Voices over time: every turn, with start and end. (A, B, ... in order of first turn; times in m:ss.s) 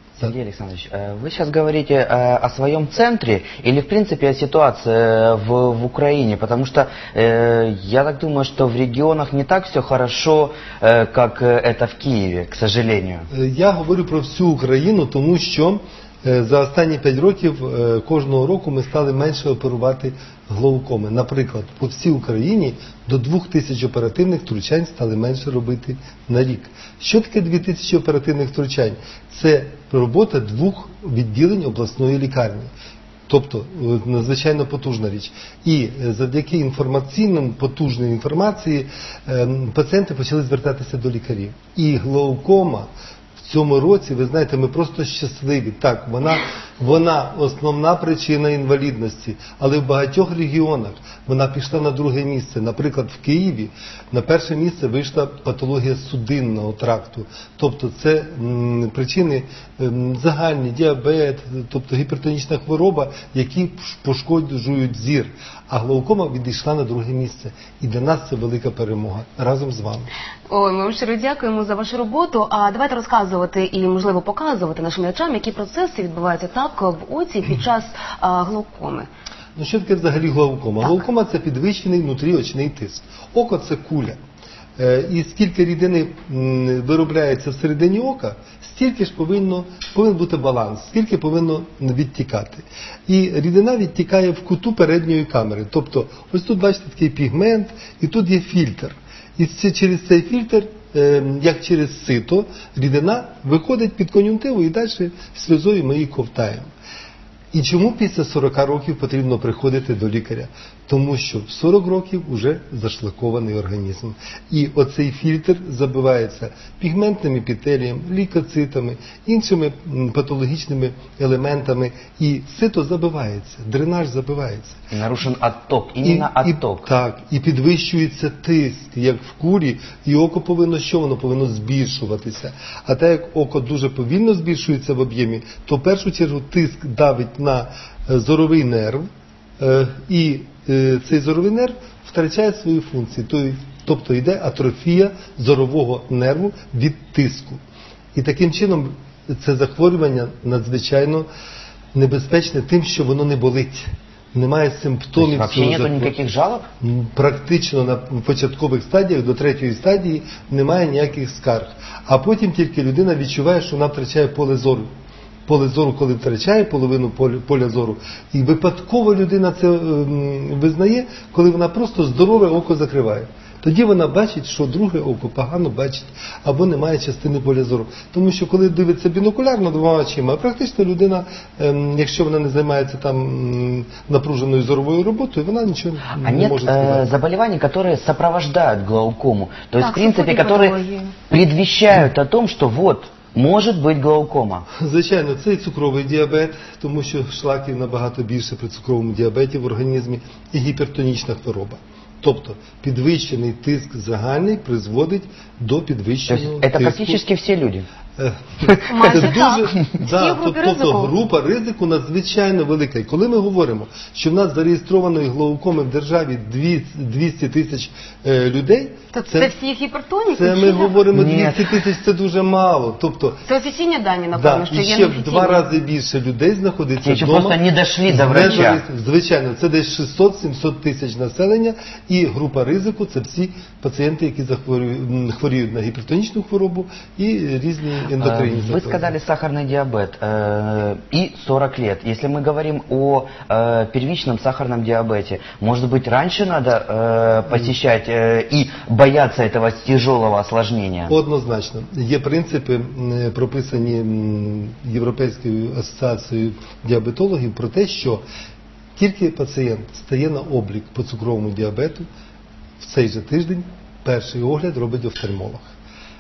0:00.2-0:13.3 A
0:13.3-0:32.7 B
0:33.3-0:42.9 B
0:43.4-1:10.1 B
1:10.5-1:19.1 C
1:19.6-1:24.2 B
1:24.8-1:46.7 B
1:47.5-2:04.8 B
2:04.9-2:06.9 A
2:06.0-2:19.1 B
2:19.6-2:27.6 B
2:28.1-2:31.3 B
2:31.9-2:36.1 B
2:35.2-2:36.7 A
2:36.8-2:44.9 B
2:45.5-3:07.1 B
3:06.1-3:14.6 A
3:09.8-3:11.1 C
3:14.7-3:27.2 B
3:26.3-3:27.8 A
3:28.9-3:31.1 C
3:29.0-3:39.5 B
3:39.1-3:41.0 C
3:40.3-3:43.4 B
3:41.1-3:41.7 A
3:43.4-3:45.7 C
3:44.3-3:59.1 B
3:47.0-3:48.8 A
3:58.2-4:11.1 A
4:11.1-4:18.2 B
4:19.0-4:22.1 B
4:22.8-4:25.7 B